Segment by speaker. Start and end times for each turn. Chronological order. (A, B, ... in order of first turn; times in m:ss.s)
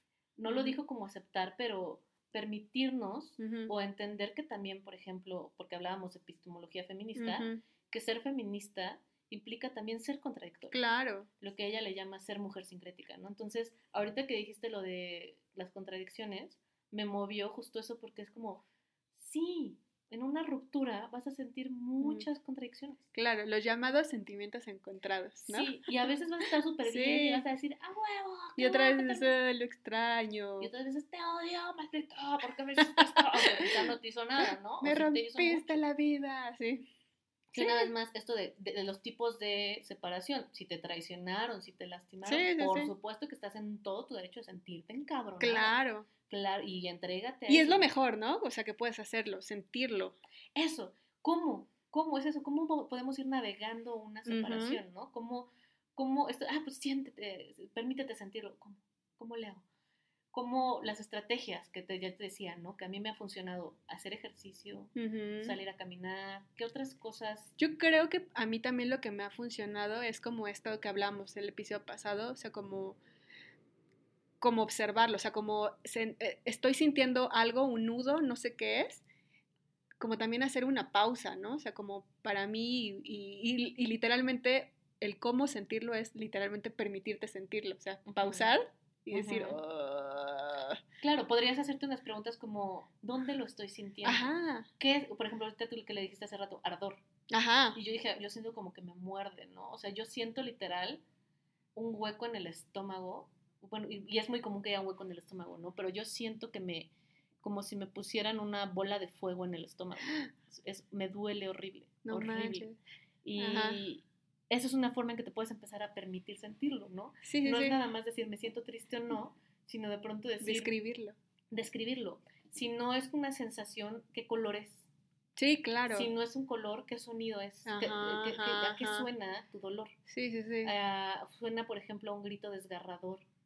0:00.4-0:10.8 A
0:00.5-0:00.8 B
0:03.4-0:03.7 B
0:07.2-0:07.6 B
0:10.7-0:11.3 B
0:11.4-0:23.0 A
0:23.1-0:25.7 B
0:25.5-0:29.3 A
0:26.8-0:27.5 B
0:28.6-0:30.7 B
0:30.6-0:35.8 A
0:32.9-0:33.9 B
0:34.8-0:36.9 B
0:37.5-0:47.9 A
0:37.6-0:37.9 B
0:42.2-0:42.9 B
0:45.4-0:46.1 B
0:47.5-0:50.2 B
0:50.6-0:59.6 A
0:54.3-0:54.8 B
1:00.3-1:07.5 A
1:05.0-1:05.6 B
1:07.6-1:13.0 B
1:14.4-1:19.0 B
1:20.0-1:30.8 B
1:28.1-1:28.5 A
1:29.1-1:29.6 A
1:31.0-1:37.0 A
1:34.0-1:34.7 B
1:37.3-1:37.8 B
1:37.8-1:41.0 A
1:41.8-1:46.9 A
1:47.4-1:52.7 A
1:52.0-1:52.8 B
1:53.2-2:00.7 A
1:53.4-1:53.8 B
1:57.2-1:57.8 B
2:00.4-2:01.2 B
2:01.5-2:04.9 A
2:05.4-2:06.1 B
2:05.9-2:10.0 A
2:07.7-2:09.1 B
2:10.1-2:10.7 B
2:10.6-2:13.2 A